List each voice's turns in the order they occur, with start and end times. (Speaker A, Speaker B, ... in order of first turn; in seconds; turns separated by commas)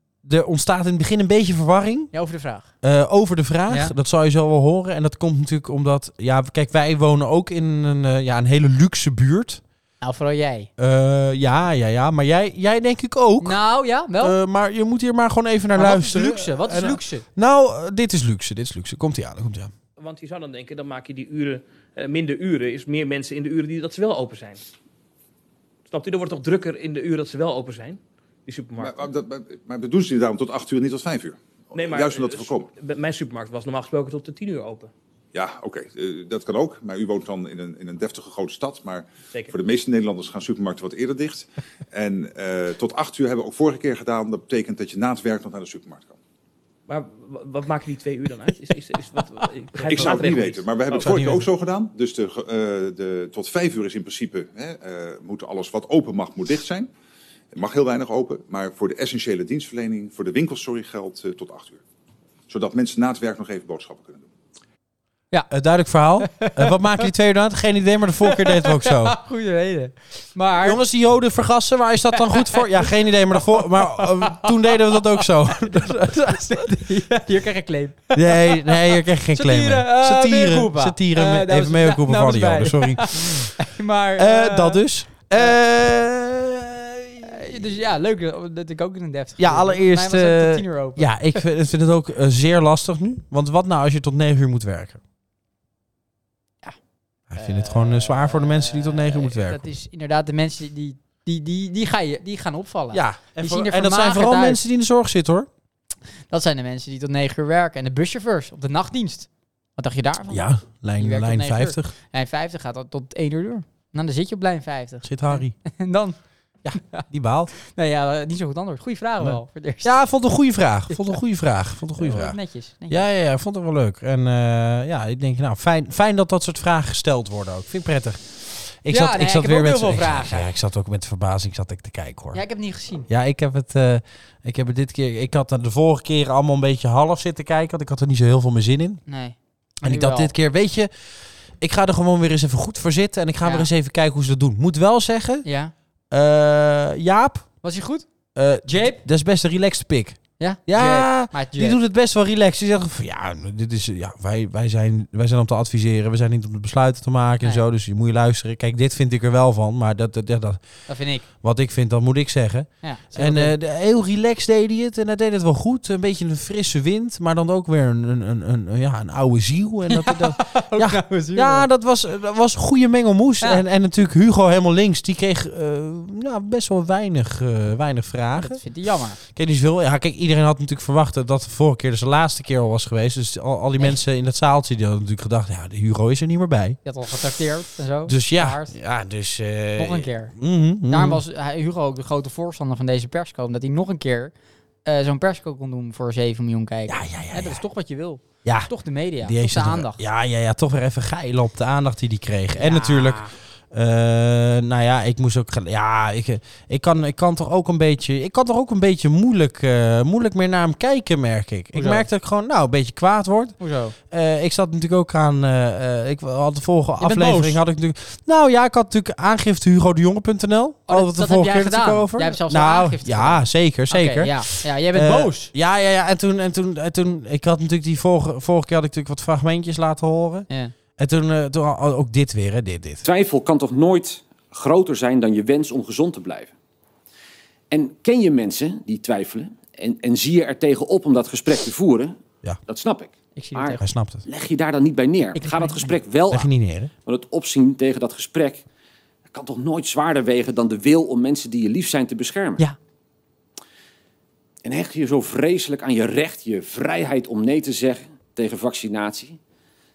Speaker A: 0.2-2.1, Speaker B: 2.1-2.7, Speaker A: 2.8-9.6, Speaker B: 3.7-3.9, Speaker B: 10.0-10.7, Speaker A: 10.8-13.6, Speaker B: 13.4-14.4, Speaker A: 14.2-19.7, Speaker B: 15.7-17.2, Speaker C: 20.0-24.6, Speaker C: 25.9-29.1, Speaker D: 28.8-32.7, Speaker C: 31.7-34.9, Speaker D: 35.3-46.2, Speaker C: 46.9-51.4, Speaker D: 49.8-56.9, Speaker A: 51.0-51.5, Speaker D: 57.5-61.8, Speaker D: 62.5-64.3, Speaker A: 65.5-69.2, Speaker B: 66.2-66.8, Speaker B: 68.2-70.8, Speaker A: 70.6-76.6, Speaker B: 72.2-84.8, Speaker A: 78.1-83.5, Speaker A: 84.2-87.6, Speaker B: 87.2-91.4, Speaker A: 89.4-95.0, Speaker A: 97.3-99.6, Speaker B: 97.4-104.6, Speaker A: 102.9-105.5, Speaker B: 106.3-110.5, Speaker A: 110.3-111.9, Speaker B: 111.0-116.2, Speaker A: 115.0-115.5, Speaker A: 116.6-117.5, Speaker B: 116.7-117.0, Speaker B: 117.5-120.0, Speaker A: 119.2-122.4, Speaker B: 120.9-121.2, Speaker B: 122.0-123.1, Speaker A: 122.9-132.4, Speaker B: 128.9-130.5, Speaker B: 132.3-133.1, Speaker A: 133.1-139.0, Speaker B: 139.1-140.3, Speaker A: 139.8-140.9, Speaker A: 141.6-145.5, Speaker B: 143.4-143.7, Speaker B: 145.4-145.7, Speaker A: 146.1-147.5, Speaker B: 147.6-148.1, Speaker A: 148.3-160.6, Speaker B: 148.7-149.0, Speaker B: 150.4-151.8, Speaker B: 160.9-161.3, Speaker A: 161.4-178.6, Speaker B: 162.8-163.6, Speaker B: 169.9-171.7, Speaker B: 178.4-179.2, Speaker A: 179.3-186.8, Speaker B: 186.8-188.7, Speaker A: 188.1-191.2, Speaker B: 189.8-190.3, Speaker B: 190.9-194.3, Speaker B: 194.8-200.0, Speaker A: 196.9-197.6, Speaker A: 198.4-198.7, Speaker A: 199.2-233.1, Speaker B: 202.6-203.3, Speaker B: 211.7-212.1, Speaker B: 213.6-214.0, Speaker B: 217.0-217.6, Speaker B: 220.9-225.5, Speaker E: 233.1-236.5, Speaker E: 237.7-242.2, Speaker E: 242.7-246.5, Speaker B: 243.4-243.8, Speaker A: 243.8-244.2, Speaker B: 245.3-245.9, Speaker A: 246.3-246.9, Speaker E: 247.1-248.6, Speaker E: 249.3-252.6, Speaker E: 254.6-259.4